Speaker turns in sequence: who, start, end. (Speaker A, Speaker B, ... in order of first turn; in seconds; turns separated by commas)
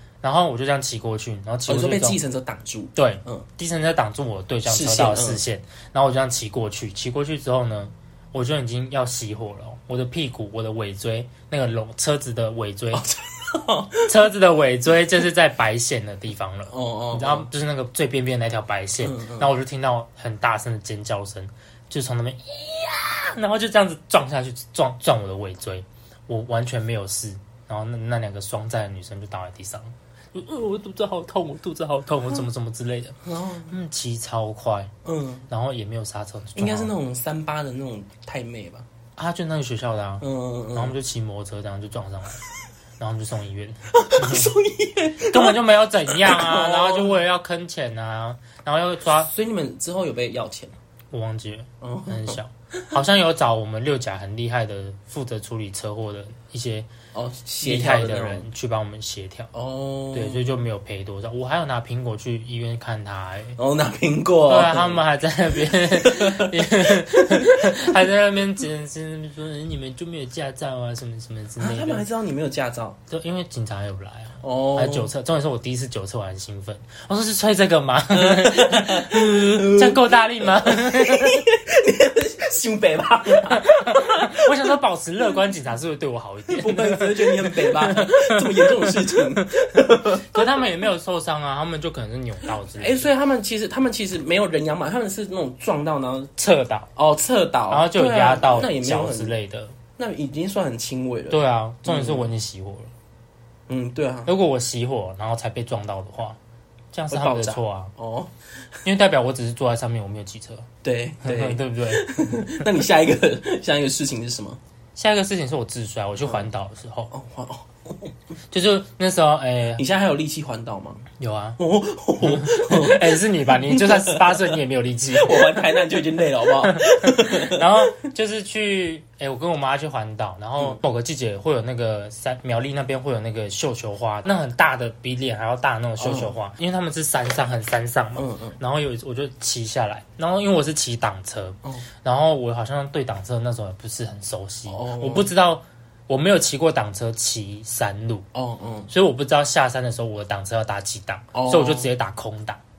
Speaker A: 0.2-2.2, Speaker B: 1.7-3.4, Speaker A: 2.9-13.1, Speaker B: 4.7-5.4, Speaker B: 12.9-14.1, Speaker A: 14.1-34.9, Speaker B: 16.7-17.5, Speaker B: 19.0-19.5, Speaker B: 33.2-33.7, Speaker B: 35.0-35.5, Speaker A: 35.5-36.9, Speaker B: 36.5-38.9, Speaker A: 39.2-42.4, Speaker B: 40.2-40.9, Speaker A: 43.0-44.5, Speaker B: 43.9-47.1, Speaker A: 45.3-49.3, Speaker B: 49.2-50.7, Speaker A: 51.1-56.9, Speaker B: 51.8-52.8, Speaker B: 57.1-58.5, Speaker A: 57.6-59.5, Speaker B: 59.5-60.6, Speaker A: 60.1-63.6, Speaker B: 63.6-65.0, Speaker A: 64.5-72.0, Speaker B: 66.0-67.9, Speaker B: 71.6-73.0, Speaker A: 73.1-81.5, Speaker B: 74.4-75.1, Speaker B: 78.1-84.7, Speaker A: 83.3-93.1, Speaker B: 86.5-90.6, Speaker B: 92.7-96.3, Speaker A: 96.4-96.9, Speaker B: 96.9-99.3, Speaker A: 97.7-99.7, Speaker B: 100.0-102.2, Speaker A: 101.3-102.9, Speaker B: 103.7-104.3, Speaker A: 104.3-106.4, Speaker A: 106.9-107.9, Speaker B: 107.1-108.3, Speaker A: 108.8-110.7, Speaker B: 110.8-114.6, Speaker A: 111.2-112.6, Speaker A: 115.0-117.1, Speaker B: 117.1-118.1, Speaker A: 118.5-119.8, Speaker B: 119.8-121.0, Speaker A: 121.2-121.6, Speaker B: 121.6-124.6, Speaker A: 122.2-125.6, Speaker B: 125.1-127.9, Speaker A: 126.4-148.2, Speaker B: 136.0-136.3, Speaker B: 138.2-138.6, Speaker B: 144.7-145.3, Speaker B: 148.3-148.9, Speaker A: 148.9-152.6, Speaker B: 151.3-151.9